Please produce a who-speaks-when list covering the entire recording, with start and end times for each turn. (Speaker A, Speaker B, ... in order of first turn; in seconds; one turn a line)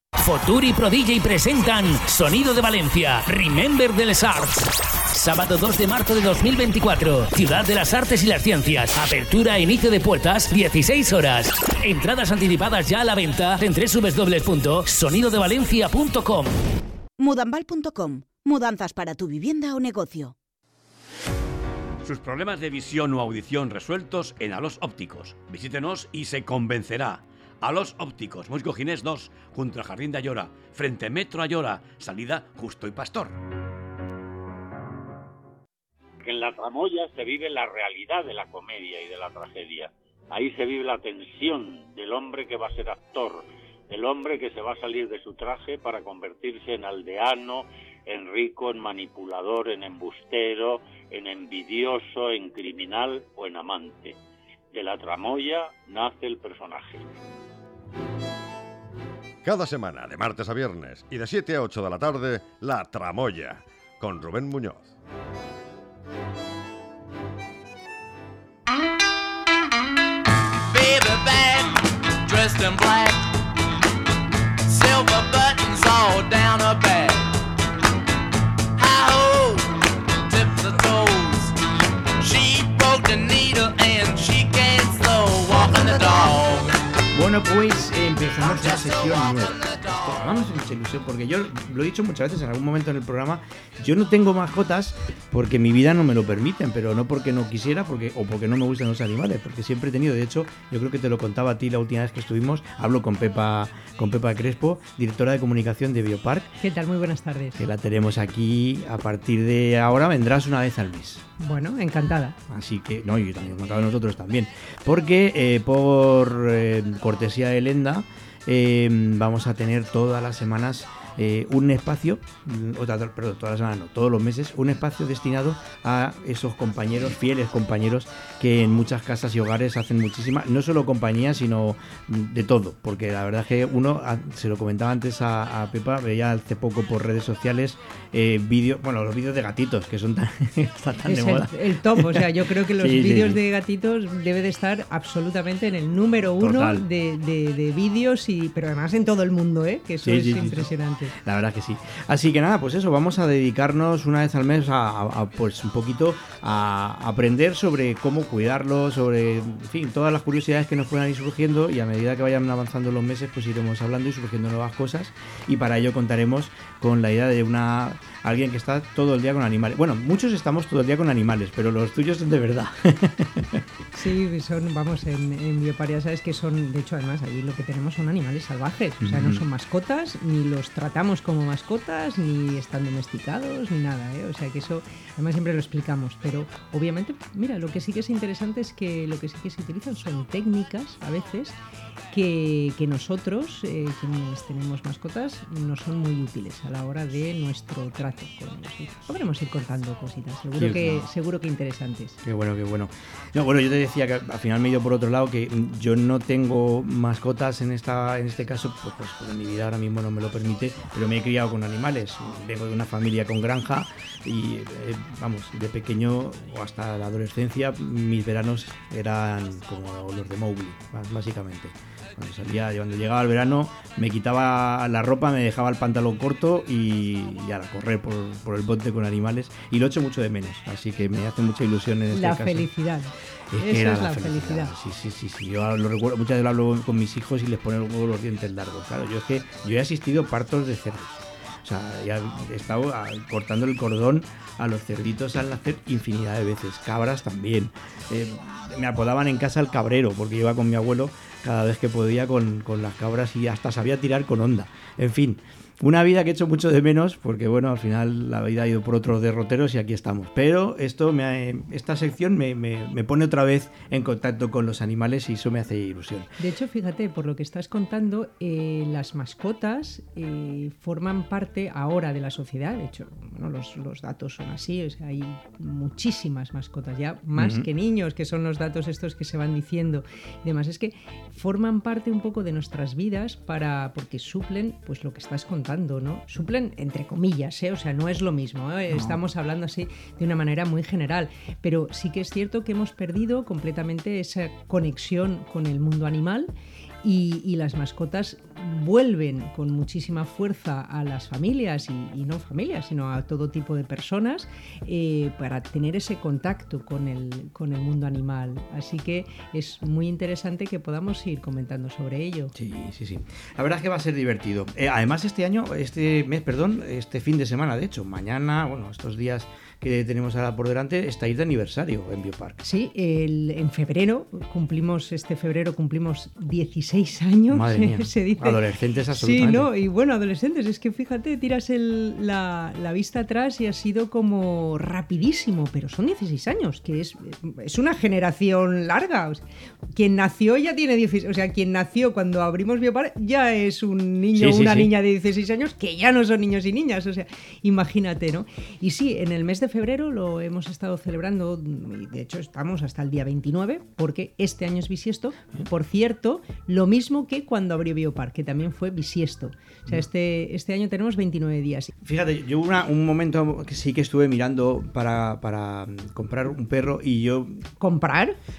Speaker A: 0.2-16.5
Speaker B: 17.2-20.4
Speaker C: 22.0-33.4
Speaker D: 36.2-54.2
Speaker D: 54.7-57.1
Speaker E: 59.4-64.9
Speaker F: 70.7-73.2
Speaker F: 74.7-77.3
Speaker F: 78.8-79.8
Speaker F: 80.3-81.6
Speaker F: 82.2-86.7
Speaker G: 87.1-106.6
Speaker F: 88.4-90.2
Speaker H: 106.6-107.6
Speaker G: 107.6-111.2
Speaker H: 111.4-112.4
Speaker G: 112.5-143.4
Speaker H: 141.0-151.1
Speaker G: 146.4-146.8
Speaker G: 150.0-173.6
Speaker H: 173.9-191.6
Speaker G: 179.0-179.4
Speaker H: 192.1-202.2
Speaker G: 200.6-201.1
Speaker G: 202.2-232.7
Speaker H: 232.1-234.7
Speaker G: 233.5-266.3
Speaker H: 266.4-296.5
Speaker G: 277.4-277.7
Speaker G: 288.9-289.2
Speaker H: 297.0-312.5
Speaker G: 312.6-322.6
Speaker H: 322.6-339.4
Speaker G: 327.5-329.7
Speaker H: 339.9-361.9
Speaker G: 344.4-344.9
Speaker G: 362.0-367.7
Speaker H: 367.8-368.4